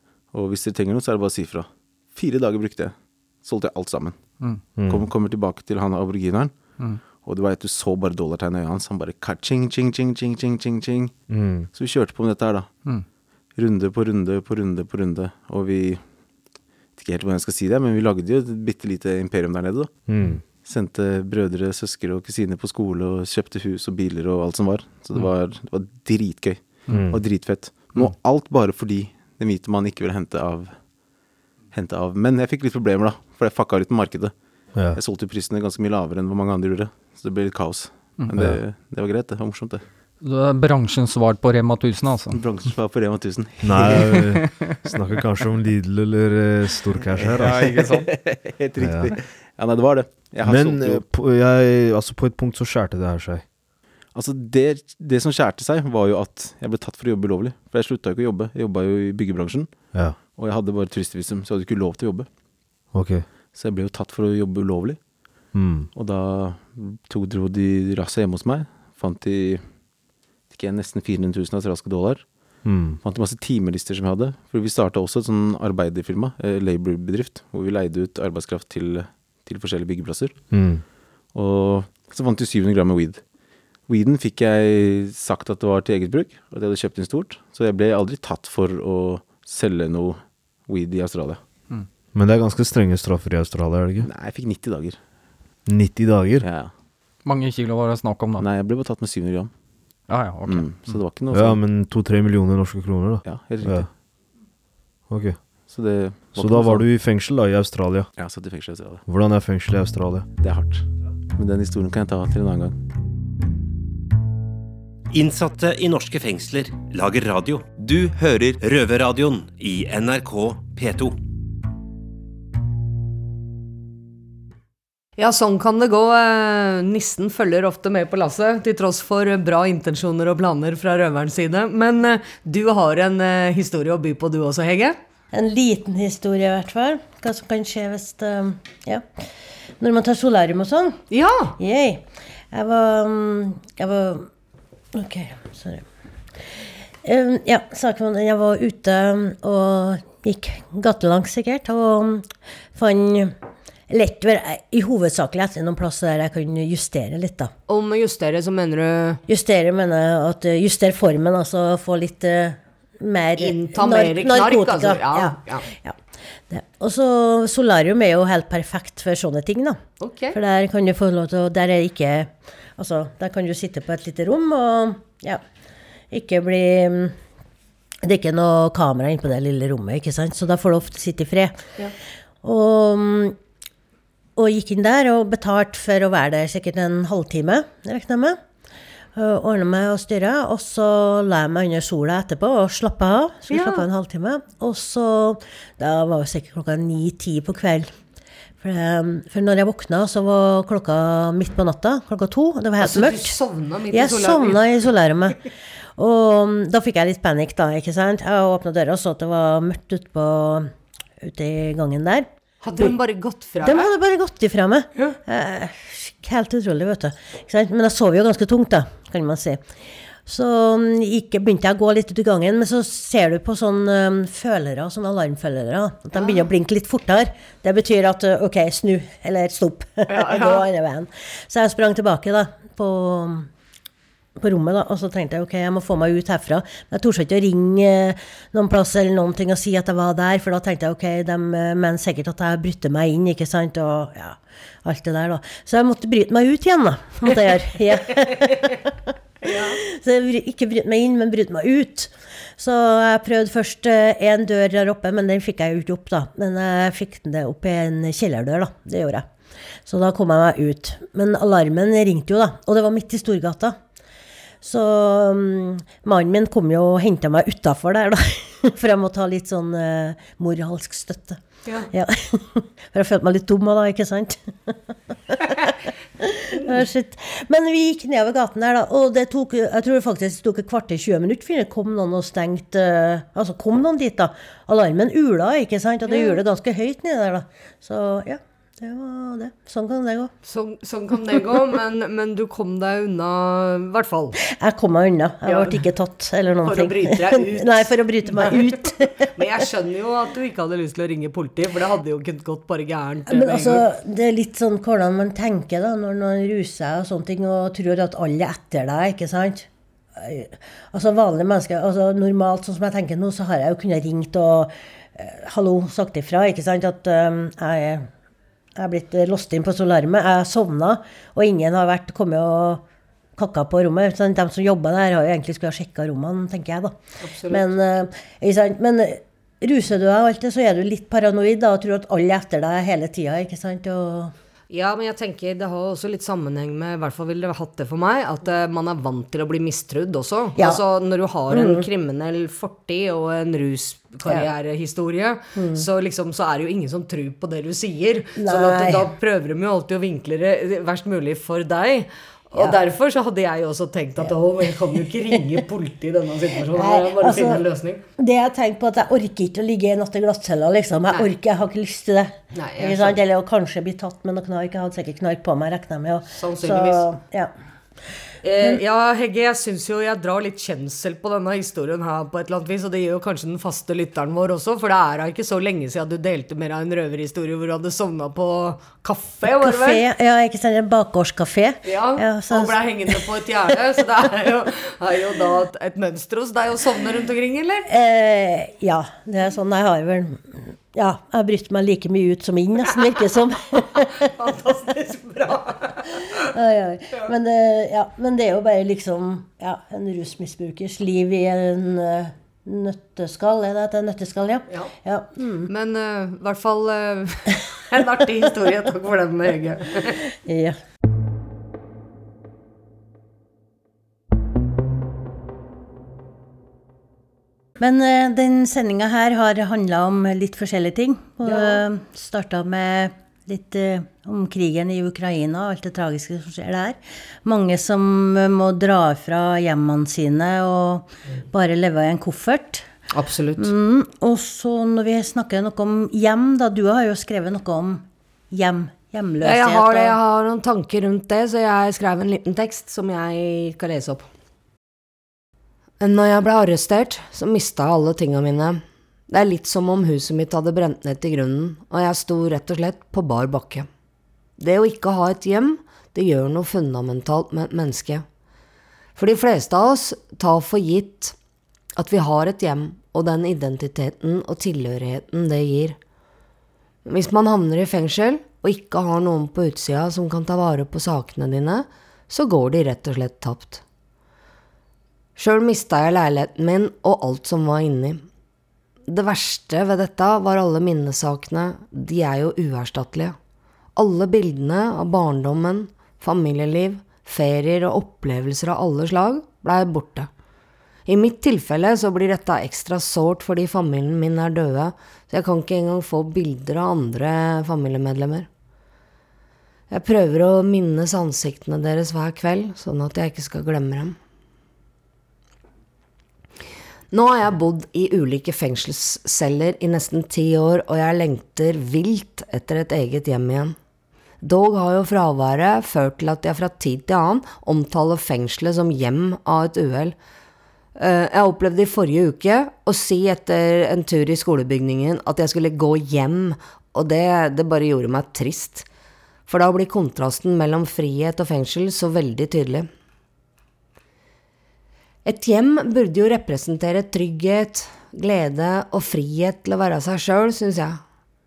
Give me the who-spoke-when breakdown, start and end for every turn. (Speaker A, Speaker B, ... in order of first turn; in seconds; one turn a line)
Speaker A: 0.3-6.6
Speaker B: 4.4-4.7
Speaker C: 4.7-5.1
Speaker A: 7.1-12.7
Speaker C: 11.3-11.7
Speaker A: 13.5-16.0
Speaker A: 16.9-31.1
Speaker C: 20.1-20.4
Speaker C: 26.9-27.3
Speaker A: 31.7-39.9
Speaker C: 34.7-35.0
Speaker B: 38.2-38.4
Speaker B: 40.2-42.4
Speaker A: 42.3-44.3
Speaker C: 43.6-47.7
Speaker B: 44.0-44.8
Speaker A: 47.0-51.0
Speaker B: 47.4-48.1
Speaker C: 48.8-49.1
Speaker C: 50.5-53.5
Speaker A: 54.1-62.3
Speaker C: 59.9-60.2
Speaker C: 62.9-63.3
Speaker A: 63.5-65.0
Speaker C: 65.5-65.9
Speaker A: 65.9-69.8
Speaker A: 70.5-80.5
Speaker C: 72.6-73.0
Speaker C: 80.5-80.8
Speaker A: 81.3-83.2
Speaker A: 83.8-91.4
Speaker C: 92.1-94.1
Speaker A: 94.0-95.0
Speaker C: 95.7-96.5
Speaker A: 96.4-96.7
Speaker B: 97.2-98.5
Speaker A: 98.4-99.5
Speaker B: 100.1-101.0
Speaker A: 100.4-101.6
Speaker C: 101.3-103.9
Speaker A: 103.2-103.9
Speaker C: 105.1-105.7
Speaker A: 105.5-106.9
Speaker C: 106.3-108.1
Speaker A: 108.2-109.0
Speaker C: 109.1-110.3
Speaker A: 110.4-112.8
Speaker D: 115.1-121.2
Speaker E: 125.2-135.0
Speaker F: 135.3-139.1
Speaker F: 139.8-141.0
Speaker E: 141.1-141.6
Speaker F: 141.6-144.3
Speaker F: 144.9-145.8
Speaker F: 147.0-153.3
Speaker F: 153.9-157.5
Speaker E: 157.7-159.2
Speaker F: 159.3-166.0
Speaker E: 163.4-165.7
Speaker F: 166.5-175.4
Speaker E: 170.0-170.4
Speaker F: 176.1-177.2
Speaker F: 178.0-181.6
Speaker F: 182.4-183.4
Speaker F: 184.4-188.4
Speaker F: 189.2-197.9
Speaker E: 193.5-193.9
Speaker F: 198.6-203.4
Speaker E: 202.8-204.7
Speaker F: 203.9-205.4
Speaker F: 206.0-210.7
Speaker F: 211.2-212.3
Speaker E: 212.6-213.9
Speaker F: 213.6-219.6
Speaker F: 220.3-233.5
Speaker E: 226.1-226.5
Speaker E: 230.1-230.7
Speaker F: 234.4-248.8
Speaker E: 249.4-249.8
Speaker F: 249.5-259.3
Speaker F: 259.9-263.8
Speaker F: 264.6-274.8
Speaker F: 275.3-290.3
Speaker E: 286.1-286.4
Speaker E: 290.4-294.4
Speaker F: 294.5-299.3
Speaker E: 295.4-295.8
Speaker E: 296.6-298.8
Speaker E: 299.3-303.8
Speaker F: 303.3-309.7
Speaker F: 310.2-318.1
Speaker F: 318.8-322.8
Speaker F: 323.4-326.9
Speaker E: 327.2-327.7
Speaker F: 327.5-334.3
Speaker E: 334.7-358.0
Speaker F: 341.5-341.9
Speaker F: 345.6-345.9
Speaker F: 348.4-349.1
Speaker F: 356.8-357.6
Speaker F: 358.2-367.5
Speaker E: 362.5-363.2
Speaker E: 366.3-367.1
Speaker E: 368.4-380.0
Speaker F: 379.5-383.2
Speaker E: 381.9-387.9
Speaker F: 387.9-394.1
Speaker E: 394.2-396.1
Speaker F: 396.4-405.7
Speaker E: 405.7-410.2
Speaker F: 410.5-410.8
Speaker F: 417.8-432.9
Speaker E: 421.4-421.8
Speaker E: 433.1-433.7
Speaker F: 433.6-440.2
Speaker E: 439.4-444.3
Speaker E: 446.0-453.9
Speaker E: 454.6-458.2
Speaker E: 459.2-461.4
Speaker E: 462.0-466.0
Speaker E: 467.1-473.8
Speaker E: 475.4-478.2
Speaker E: 479.1-483.4
Speaker E: 484.0-490.3
Speaker E: 491.1-498.5
Speaker E: 499.9-504.2
Speaker E: 507.1-513.8
Speaker E: 514.4-520.2
Speaker E: 521.0-528.9
Speaker E: 529.5-532.9
Speaker E: 535.2-541.0